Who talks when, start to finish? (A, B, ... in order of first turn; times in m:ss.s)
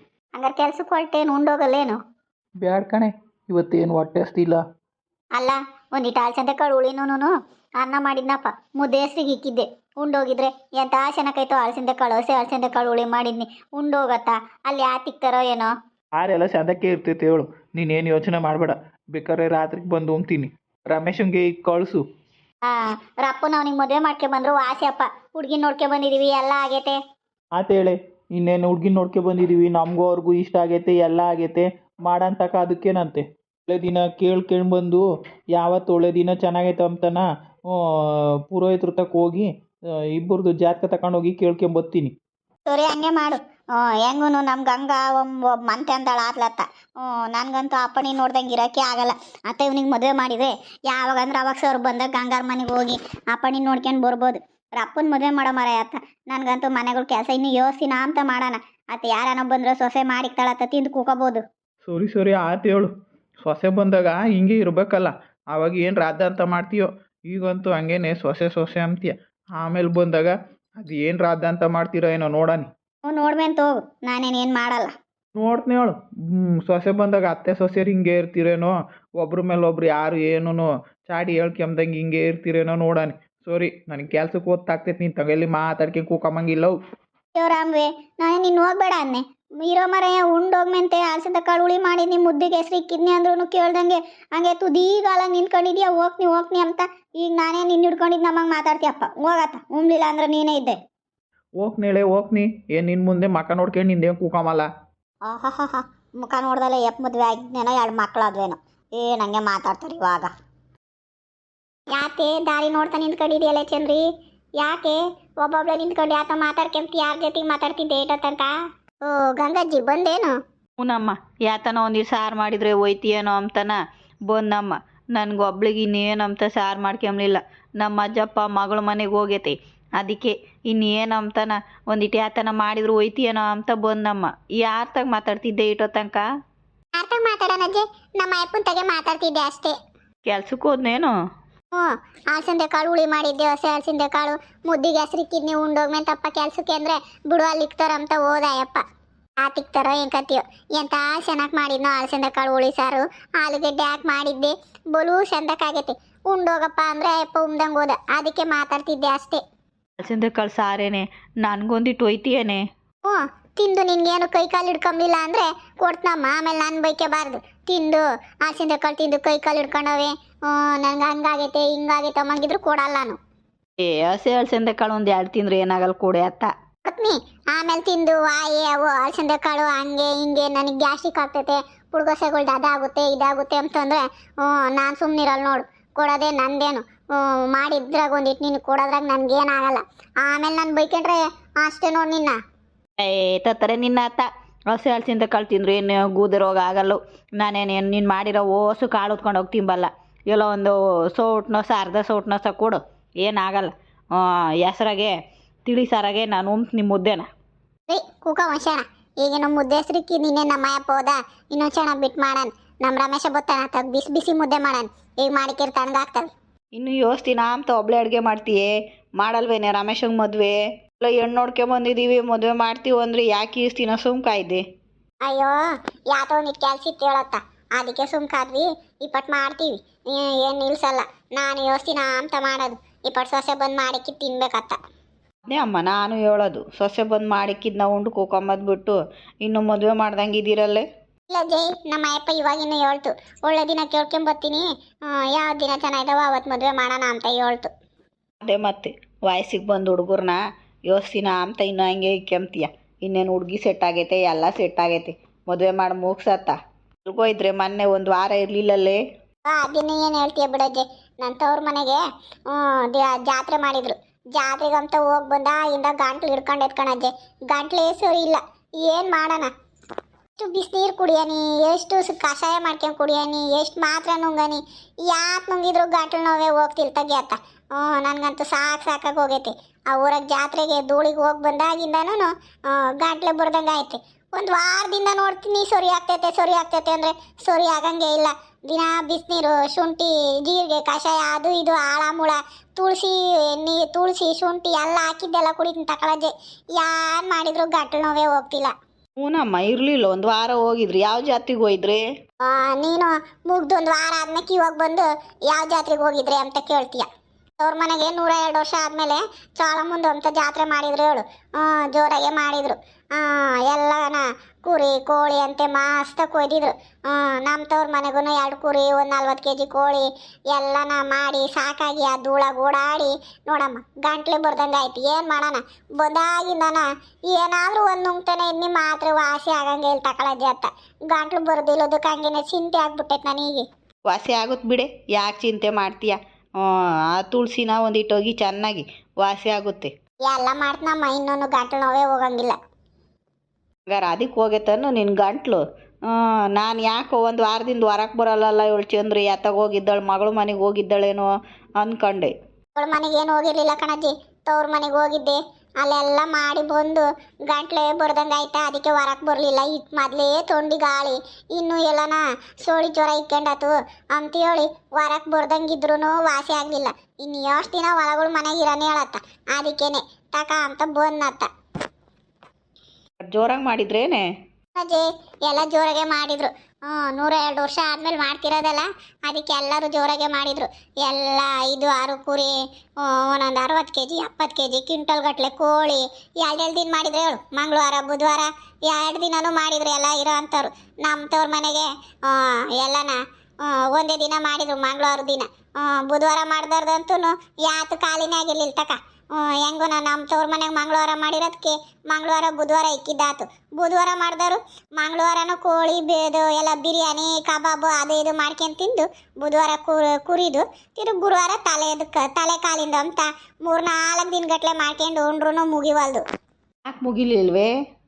0:00.4-0:02.0 A
0:02.6-0:04.6 B
0:05.4-0:15.7 A
0:16.2-0:22.0 B
0:22.7-0:27.0 A
0:27.6-0:37.8 B
0:38.5-0:39.5 B
0:40.1-0:42.1 B
0:42.7-1:01.4 A
1:01.8-1:02.9 B
1:03.4-1:12.7 B
1:13.1-1:14.9 A
1:15.4-1:26.8 B
1:27.4-1:40.8 A
1:41.6-1:44.7 B
1:45.3-1:50.3 A
1:51.9-1:54.1 A
1:54.6-1:58.5 A
1:59.0-2:00.4 A
2:00.8-2:16.2 C
2:17.0-2:19.8 A
2:20.3-2:21.2 C
2:21.7-2:28.8 A
2:29.4-2:39.4 A
2:40.0-2:42.6 C
2:43.0-2:53.2 A
2:53.8-2:56.5 C
2:56.9-3:12.4 A
3:13.0-3:25.2 C
3:25.7-3:27.3 C
3:27.9-3:36.3 A
3:36.8-3:44.6 C
3:45.2-3:45.6 A
3:46.1-3:54.8 A
3:55.5-4:00.8 C
4:01.3-4:07.7 A
4:08.4-4:19.0 C
4:19.5-4:29.5 A
4:30.4-4:58.7 A
4:59.2-5:02.0 C
5:02.4-5:07.1 A
5:07.6-5:33.7 A
5:34.1-5:39.9 C
5:40.2-5:42.6 A
5:43.9-5:52.3 C
5:52.8-6:11.5 A
6:13.2-6:14.2 C
6:14.8-6:56.2 A
6:56.9-6:57.7 C